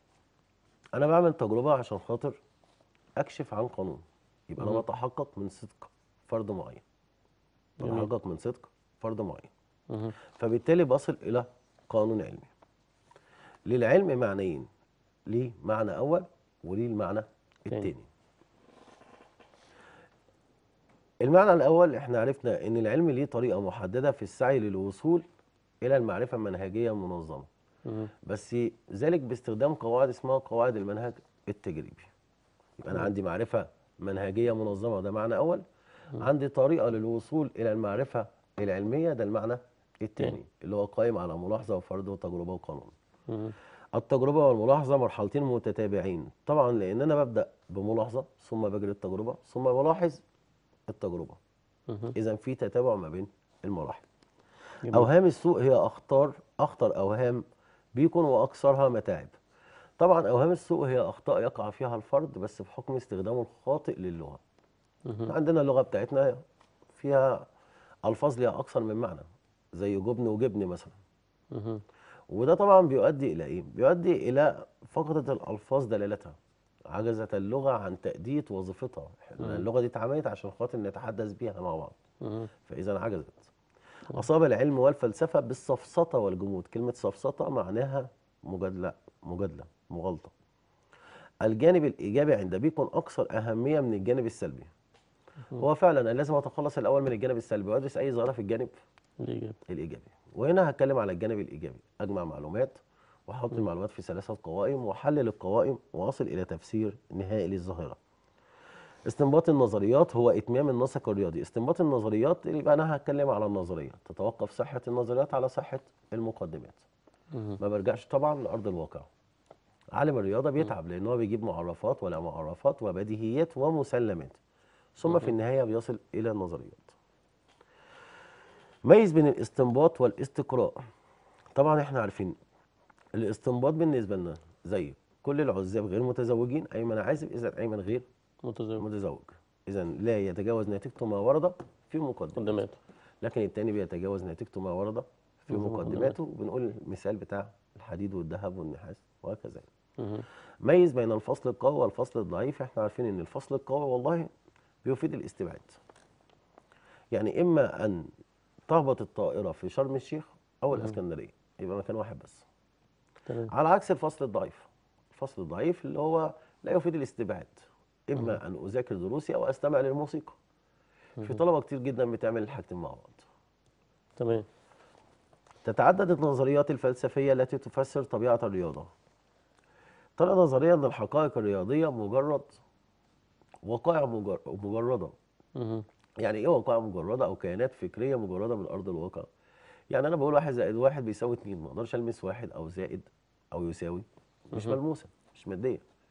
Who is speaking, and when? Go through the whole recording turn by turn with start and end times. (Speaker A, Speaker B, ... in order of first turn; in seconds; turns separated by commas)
Speaker A: 0.9-2.4, Speaker A: 3.2-6.8, Speaker B: 7.8-8.1, Speaker A: 7.8-9.5, Speaker B: 9.9-10.2, Speaker A: 10.3-12.5, Speaker A: 13.7-14.7, Speaker A: 15.3-18.1, Speaker A: 21.2-25.2, Speaker A: 25.8-27.5, Speaker B: 27.9-28.1, Speaker A: 28.2-32.1, Speaker A: 32.8-35.6, Speaker A: 36.2-43.0, Speaker B: 43.3-43.5, Speaker A: 44.0-50.2, Speaker A: 50.9-51.4, Speaker B: 51.9-52.1, Speaker A: 52.1-54.1, Speaker A: 54.9-57.4, Speaker A: 58.0-59.4, Speaker A: 60.0-64.4, Speaker B: 65.1-65.3, Speaker A: 65.3-66.4, Speaker A: 66.9-67.5, Speaker A: 68.1-71.0, Speaker B: 71.5-71.8, Speaker A: 72.3-76.4, Speaker A: 76.9-82.0, Speaker B: 82.2-82.5, Speaker A: 82.6-83.5, Speaker A: 84.1-90.3, Speaker A: 91.4-94.7, Speaker A: 95.6-98.8, Speaker B: 99.2-99.6, Speaker A: 99.7-108.0, Speaker A: 109.1-116.9, Speaker B: 117.3-117.6, Speaker A: 117.6-119.1, Speaker A: 119.9-124.4, Speaker A: 125.0-127.0, Speaker A: 128.8-130.8, Speaker A: 131.5-132.4, Speaker A: 133.2-138.1, Speaker B: 138.4-138.8, Speaker A: 138.8-142.6, Speaker B: 142.4-142.8, Speaker A: 143.2-149.7, Speaker B: 145.5-146.2, Speaker B: 150.0-150.3, Speaker A: 150.6-154.3, Speaker A: 154.8-155.8, Speaker A: 157.1-158.1, Speaker A: 158.7-162.5, Speaker A: 163.5-170.4, Speaker A: 171.2-173.3, Speaker B: 174.2-174.5, Speaker A: 175.6-178.9, Speaker A: 180.2-182.6, Speaker A: 183.7-185.2, Speaker B: 185.6-185.8, Speaker A: 186.2-189.3, Speaker A: 189.9-195.8